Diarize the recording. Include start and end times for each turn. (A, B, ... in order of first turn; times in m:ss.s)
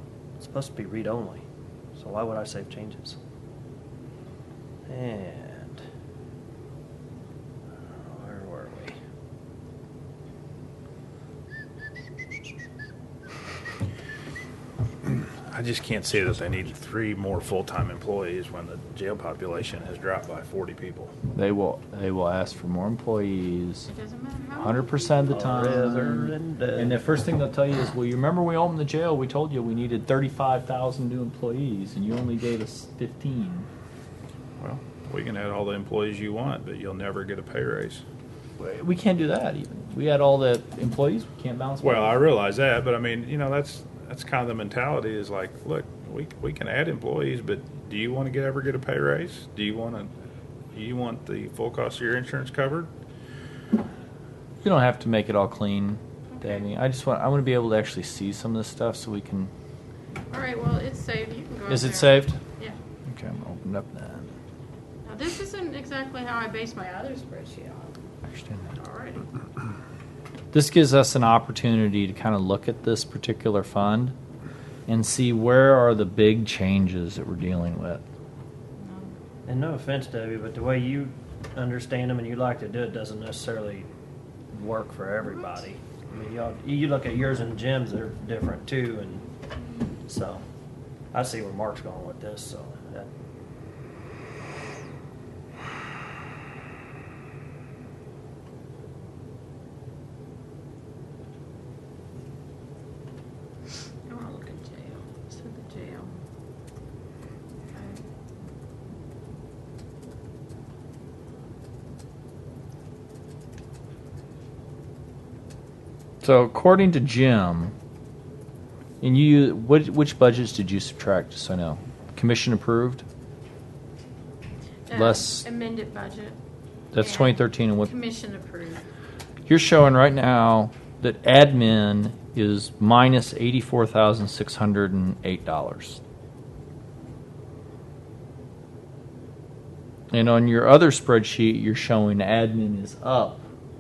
0:00.4-0:01.4 A
0:02.0-0:03.2 A
0:04.9-0:05.8 A
0:07.9-0:09.0 A
0:15.0-0:21.1 B
0:21.3-0:23.9 C
0:23.9-0:26.1 D
0:24.6-0:33.7 C
0:25.3-0:27.0 A
0:34.6-0:38.0 B
0:38.6-0:42.2 C
0:41.8-0:50.1 B
0:50.7-0:52.9 B
0:54.6-0:59.5 C
0:56.3-0:56.6 D
1:00.3-1:02.8 D
1:01.7-1:02.4 C
1:03.1-1:04.3 C
1:05.0-1:08.0 D
1:08.3-1:08.7 C
1:08.7-1:09.3 D
1:10.5-1:14.2 C
1:14.9-1:18.0 C
1:18.8-1:19.1 D
1:19.5-1:23.9 A
1:24.5-1:29.2 A
1:30.1-1:30.4 A
1:31.1-1:33.1 A
1:44.1-1:46.1 D
1:47.7-1:48.0 D
1:56.2-1:57.7 C
1:59.0-2:03.0 C
2:04.9-2:06.4 D
2:04.9-2:05.5 C
2:06.9-2:07.9 C
2:07.0-2:08.9 D
2:09.5-2:16.0 C
2:20.1-2:23.4 C